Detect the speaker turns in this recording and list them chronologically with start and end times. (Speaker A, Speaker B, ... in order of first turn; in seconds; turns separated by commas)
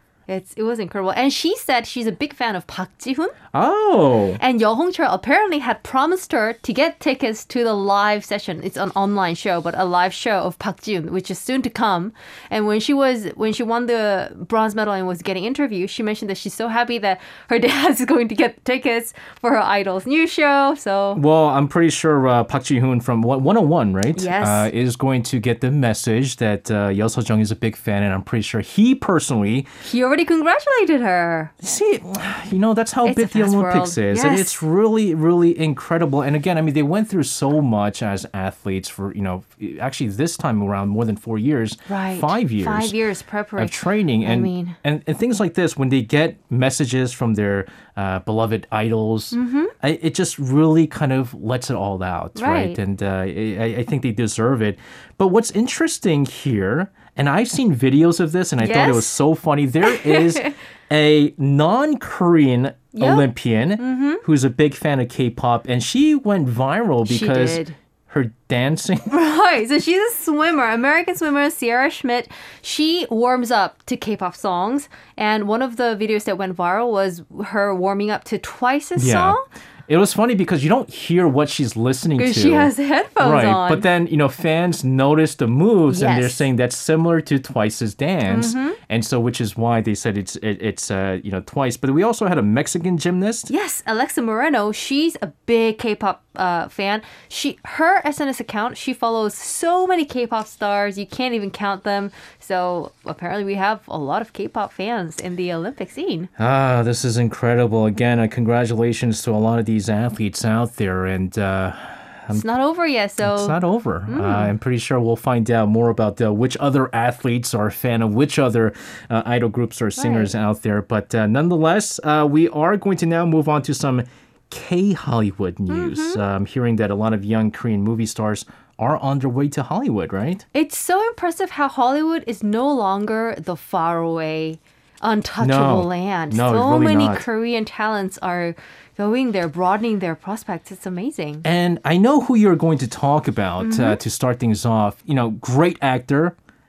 Speaker A: 0.3-3.4, Speaker B: 3.5-4.4, Speaker A: 4.4-21.2, Speaker B: 21.1-29.7, Speaker A: 24.1-24.7, Speaker A: 29.8-31.6, Speaker B: 31.6-43.0, Speaker A: 33.0-34.6, Speaker A: 41.9-44.8, Speaker B: 43.6-69.1, Speaker A: 49.3-49.7, Speaker A: 52.3-52.8, Speaker A: 58.6-59.2, Speaker A: 59.8-60.5, Speaker A: 62.9-64.2, Speaker A: 67.0-67.8, Speaker A: 69.1-79.5, Speaker B: 79.0-93.5, Speaker A: 82.2-83.8, Speaker A: 85.9-86.5, Speaker A: 88.2-88.8, Speaker A: 93.5-106.3, Speaker B: 106.4-112.4, Speaker A: 112.3-114.5, Speaker B: 113.2-130.4, Speaker A: 120.0-120.3, Speaker A: 125.7-126.2, Speaker A: 130.5-141.4, Speaker B: 135.4-137.2, Speaker B: 141.4-146.3, Speaker A: 143.6-144.0